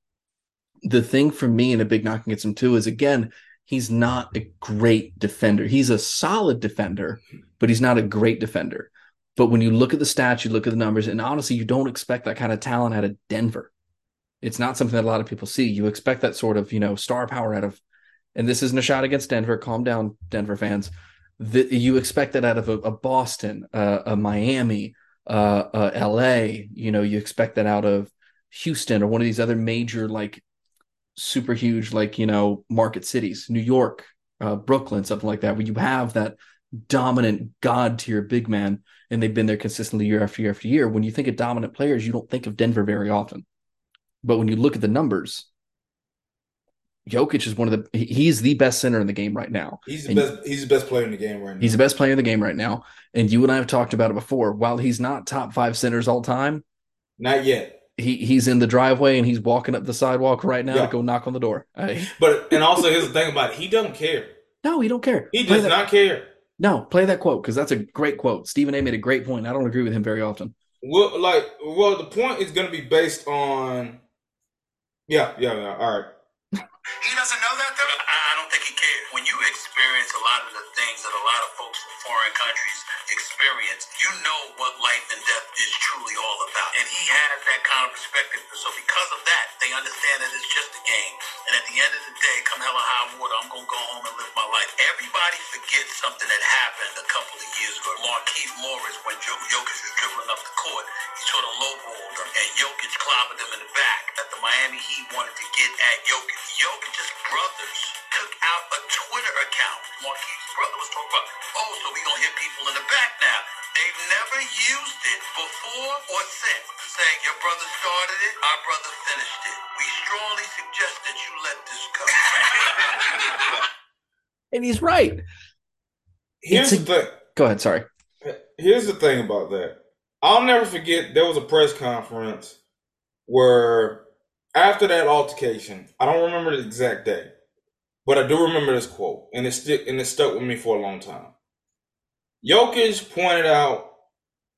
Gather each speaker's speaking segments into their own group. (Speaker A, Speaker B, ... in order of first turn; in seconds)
Speaker A: 0.8-13.7, 14.4-17.8, 18.3-30.4, 31.1-43.4, 44.2-45.5, 47.0-50.3, 51.6-56.6, 58.0-62.8, 64.6-65.8, 66.6-70.5, 124.5-125.2, 126.5-127.8
Speaker B: 49.9-51.8, 57.2-57.7, 60.7-60.9, 62.2-64.3, 65.3-66.3, 70.8-74.0, 75.1-76.1, 126.4-127.2, 128.2-132.6, 133.3-137.3, 138.0-141.3, 142.4-143.9
Speaker C: 77.2-123.5